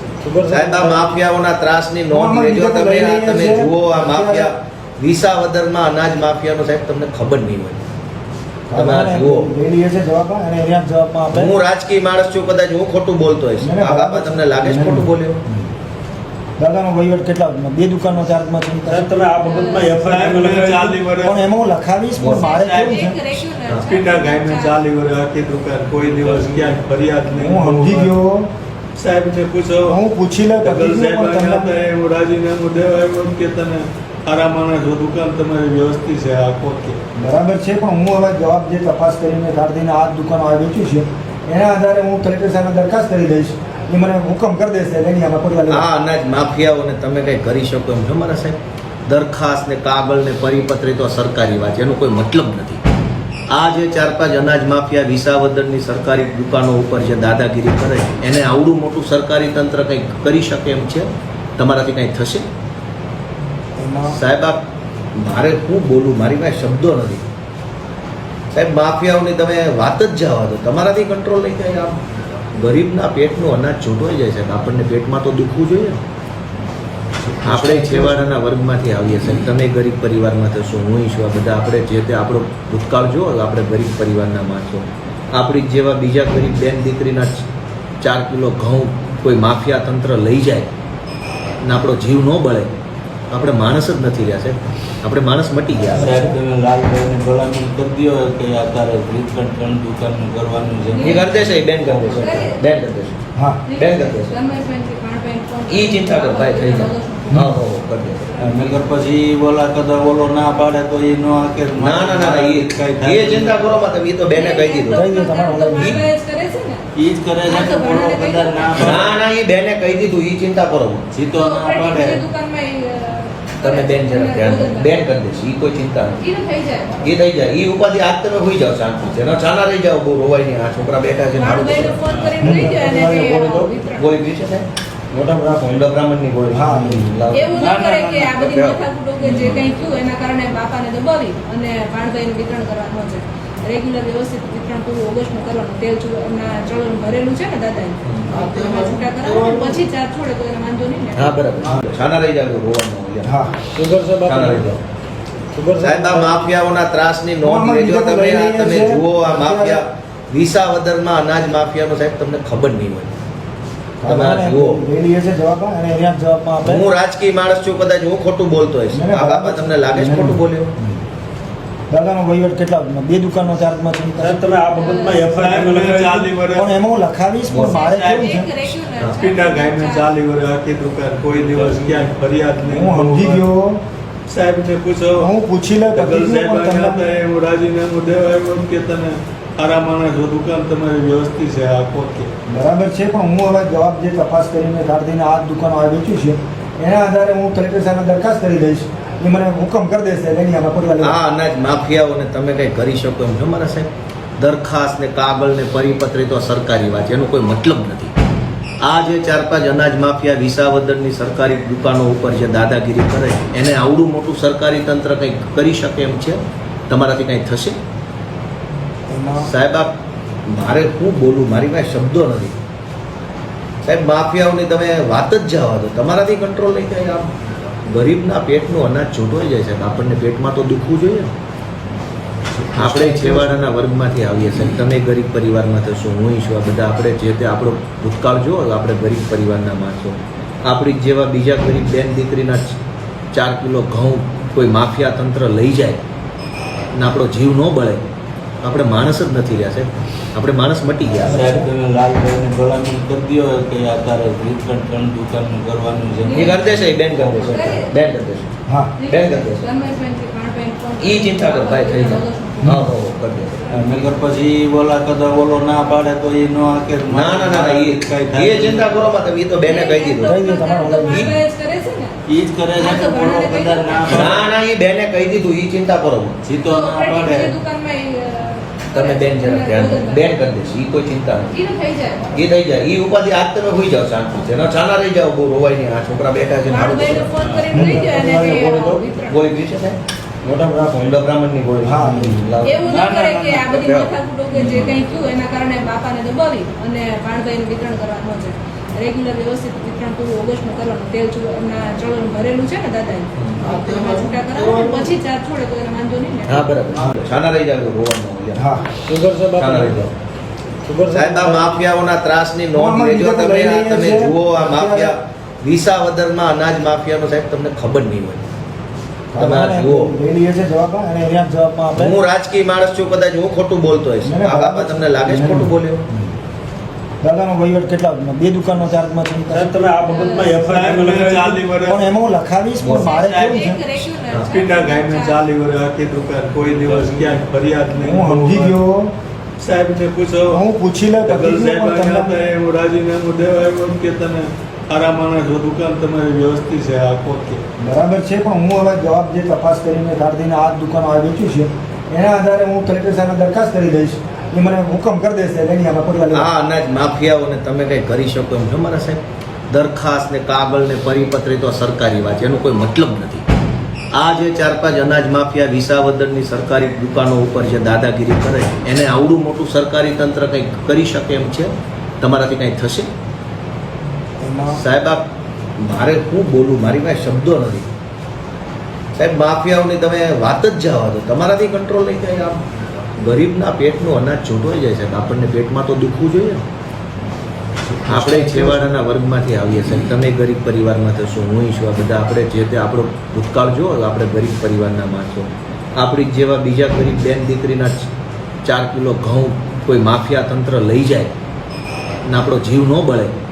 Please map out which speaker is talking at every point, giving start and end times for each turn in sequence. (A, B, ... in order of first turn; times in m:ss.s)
0:00.2-0:01.1 A
0:00.5-0:07.8 B
0:02.1-0:04.5 C
0:08.7-0:11.5 C
0:08.7-0:09.5 B
0:11.3-0:15.4 B
0:13.6-0:15.7 C
0:16.6-0:19.2 C
0:18.9-0:21.0 A
0:19.4-0:19.9 D
0:19.9-0:21.3 E
0:21.2-0:23.2 C
0:22.2-0:22.7 F
0:22.2-0:24.8 D
0:23.9-0:28.1 E
0:26.0-0:26.8 F
0:27.4-0:28.5 C
0:29.0-0:30.0 E
0:29.9-0:31.8 C
0:30.8-0:37.0 E
0:37.2-0:45.9 C
0:45.7-0:52.8 B
0:53.5-1:02.4 B
1:03.8-1:04.2 C
1:04.1-1:04.6 B
1:05.2-1:07.2 B
1:08.5-1:12.0 B
1:12.5-1:16.0 B
1:17.4-1:18.2 C
1:17.4-1:27.4 B
1:28.0-1:30.7 B
1:31.6-1:32.7 B
1:33.3-1:36.2 B
1:35.8-1:36.4 C
1:36.0-1:41.2 F
1:41.0-1:43.2 B
1:41.0-1:42.6 D
1:41.8-1:42.2 F
1:43.4-1:43.6 C
1:43.7-1:47.6 D
1:43.8-1:44.4 B
1:45.7-1:48.4 B
1:47.3-1:47.6 C
1:48.4-1:53.7 F
1:51.8-1:55.1 B
1:54.3-1:56.8 D
1:54.9-1:56.0 C
1:55.7-1:56.0 B
1:57.0-1:59.1 F
1:57.4-1:59.0 D
1:58.8-2:01.0 B
2:01.1-2:02.2 F
2:01.3-2:05.0 D
2:03.6-2:06.2 B
2:06.2-2:07.0 D
2:07.0-2:12.2 B
2:11.4-2:14.1 D
2:12.1-2:12.4 F
2:12.4-2:12.8 C
2:12.6-2:13.7 A
2:14.0-2:14.7 B
2:15.2-2:17.5 B
2:16.5-2:17.1 C
2:17.3-2:31.4 D
2:17.5-2:18.8 F
2:19.3-2:19.6 B
2:28.0-2:28.4 B
2:31.2-2:33.4 B
2:33.2-2:33.5 C
2:33.7-2:34.7 A
2:34.1-2:34.8 B
2:35.5-2:36.3 A
2:35.8-2:43.1 B
2:37.4-2:39.8 C
2:44.0-2:46.9 C
2:44.1-2:44.8 B
2:46.6-2:50.7 B
2:48.9-2:51.0 C
2:51.9-2:54.6 C
2:54.2-2:56.3 A
2:54.8-2:55.2 D
2:55.2-2:56.6 E
2:56.6-2:58.5 C
2:57.5-3:00.1 D
2:59.2-3:03.4 E
3:01.3-3:02.2 F
3:02.7-3:03.8 C
3:04.3-3:05.3 E
3:05.2-3:07.1 C
3:05.9-3:12.3 E
3:12.5-3:21.2 C
3:21.0-3:28.1 B
3:28.8-3:37.8 B
3:39.1-3:39.5 C
3:39.4-3:39.9 B
3:40.5-3:42.5 B
3:43.8-3:47.3 B
3:47.8-3:51.3 B
3:52.8-4:02.8 B
4:03.3-4:06.0 B
4:06.9-4:08.0 B
4:08.6-4:11.6 B
4:11.2-4:17.4 F
4:11.3-4:11.6 C
4:16.2-4:17.9 D
4:16.3-4:18.5 B
4:18.7-4:18.9 C
4:19.0-4:22.9 D
4:19.1-4:19.7 B
4:21.0-4:23.7 B
4:22.6-4:22.9 C
4:23.7-4:29.0 F
4:27.1-4:30.4 B
4:29.6-4:32.2 D
4:30.2-4:31.3 C
4:31.1-4:31.4 B
4:32.3-4:34.4 F
4:32.8-4:34.3 D
4:34.1-4:36.4 B
4:36.4-4:37.5 F
4:36.6-4:40.3 D
4:38.9-4:41.6 B
4:41.5-4:42.4 D
4:42.3-4:47.5 B
4:46.7-4:49.5 D
4:47.4-4:47.8 F
4:47.7-4:48.1 C
4:47.8-4:49.0 A
4:49.2-4:50.0 B
4:50.5-4:52.8 B
4:51.8-4:52.4 C
4:52.6-5:06.7 D
4:52.8-4:53.9 F
4:53.8-4:54.1 B
4:54.6-4:54.8 F
5:03.4-5:03.7 B
5:06.5-5:08.7 B
5:08.6-5:08.8 C
5:09.1-5:10.0 A
5:09.4-5:10.1 B
5:10.8-5:11.6 A
5:11.1-5:18.4 B
5:12.7-5:15.1 C
5:19.3-5:22.2 C
5:19.4-5:20.1 B
5:22.0-5:26.0 B
5:24.2-5:26.3 C
5:27.2-5:29.8 C
5:29.5-5:31.6 A
5:30.1-5:30.6 D
5:30.5-5:32.0 E
5:31.9-5:33.8 C
5:32.9-5:35.4 D
5:34.5-5:38.8 E
5:36.7-5:37.4 F
5:38.0-5:39.1 C
5:39.6-5:40.6 E
5:40.5-5:42.4 C
5:41.3-5:47.6 E
5:47.8-5:56.5 C
5:56.3-6:03.4 B
6:04.1-6:13.1 B
6:14.4-6:14.8 C
6:14.7-6:15.2 B
6:15.8-6:17.9 B
6:19.2-6:22.6 B
6:23.2-6:26.6 B
6:28.1-6:38.1 B
6:28.1-6:28.8 C
6:38.6-6:41.3 B
6:42.3-6:43.3 B